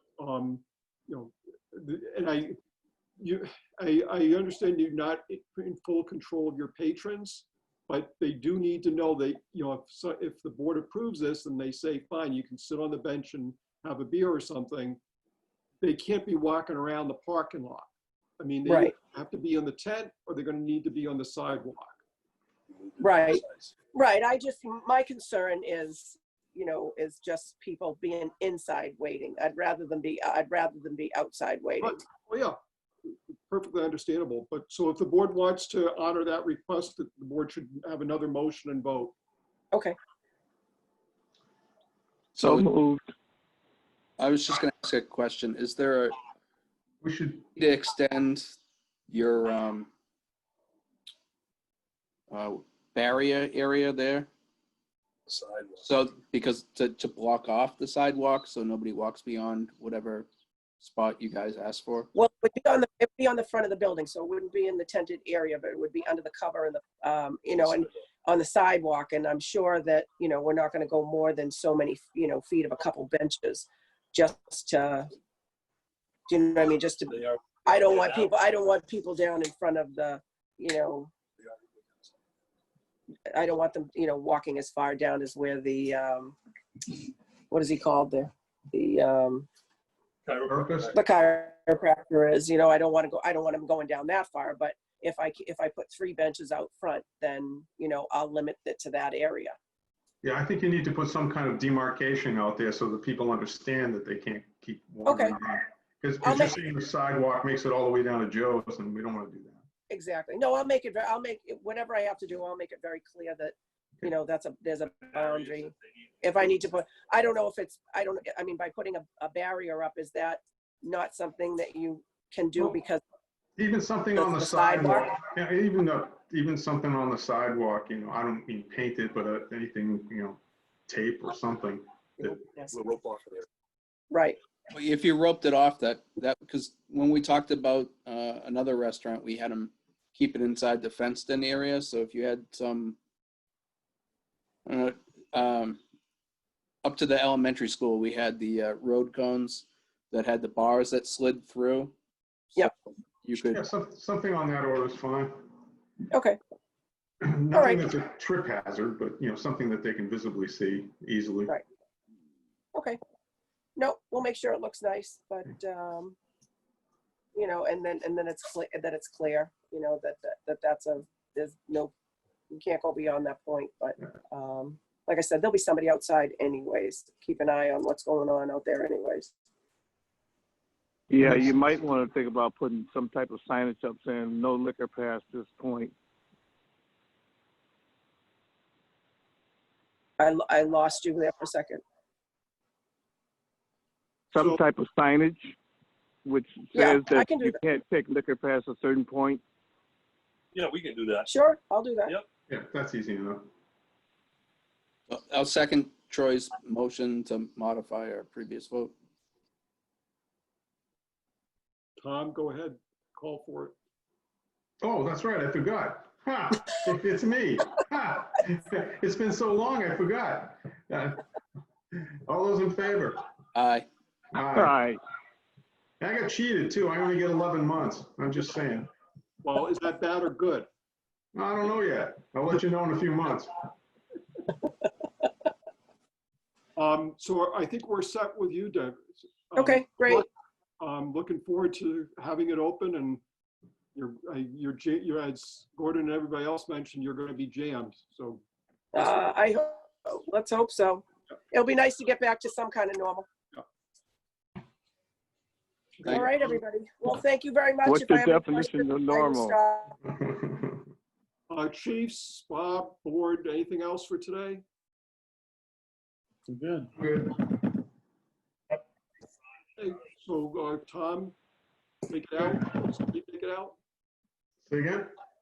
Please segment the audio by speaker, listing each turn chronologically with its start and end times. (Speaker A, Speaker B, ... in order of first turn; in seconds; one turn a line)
Speaker A: 0.2-2.6
Speaker A: 3.2-15.0
Speaker A: 15.8-17.9
Speaker A: 18.4-22.0
Speaker B: 18.6-18.9
Speaker B: 23.0-32.0
Speaker A: 31.8-39.1
Speaker C: 42.3-42.7
Speaker D: 42.4-43.0
Speaker C: 44.2-46.1
Speaker E: 47.0-47.5
Speaker C: 47.5-48.6
Speaker C: 49.1-49.9
Speaker C: 52.3-54.3
Speaker F: 55.3-55.6
Speaker C: 55.8-60.3
Speaker C: 60.8-62.1
Speaker B: 62.1-75.1
Speaker B: 76.3-81.1
Speaker F: 77.9-78.2
Speaker B: 83.3-86.4
Speaker B: 87.5-89.5
Speaker F: 90.2-90.9
Speaker E: 90.5-91.0
Speaker B: 90.9-99.5
Speaker E: 100.2-109.6
Speaker B: 105.0-105.3
Speaker B: 106.2-106.5
Speaker B: 109.9-123.0
Speaker E: 123.6-132.4
Speaker B: 124.1-125.1
Speaker B: 132.3-132.8
Speaker F: 132.7-133.4
Speaker B: 134.1-134.4
Speaker C: 134.7-143.0
Speaker C: 144.7-145.8
Speaker C: 146.8-151.9
Speaker C: 152.5-153.6
Speaker E: 153.5-155.4
Speaker B: 156.1-156.4
Speaker E: 157.2-161.5
Speaker B: 157.5-157.9
Speaker B: 163.8-166.2
Speaker B: 167.3-171.9
Speaker B: 172.5-179.3
Speaker D: 181.1-185.9
Speaker E: 181.2-181.4
Speaker B: 190.2-191.8
Speaker D: 194.3-195.6
Speaker D: 196.2-199.4
Speaker B: 196.7-197.6
Speaker F: 200.5-201.3
Speaker B: 201.3-202.1
Speaker E: 202.5-203.5
Speaker C: 205.1-208.9
Speaker A: 212.0-213.8
Speaker E: 214.8-221.2
Speaker E: 221.9-223.2
Speaker C: 223.5-223.9
Speaker E: 224.3-224.8
Speaker D: 224.5-225.0
Speaker E: 226.0-228.9
Speaker A: 229.4-230.7
Speaker E: 231.3-233.5
Speaker A: 236.8-240.3
Speaker B: 239.6-240.2
Speaker A: 240.8-243.2
Speaker A: 243.9-248.4
Speaker B: 248.9-253.3
Speaker B: 256.0-259.9
Speaker C: 256.0-256.3
Speaker D: 257.8-259.6
Speaker E: 260.0-260.8
Speaker A: 261.5-264.6
Speaker E: 266.9-267.6
Speaker A: 269.8-271.4
Speaker A: 272.1-273.8
Speaker E: 274.6-275.1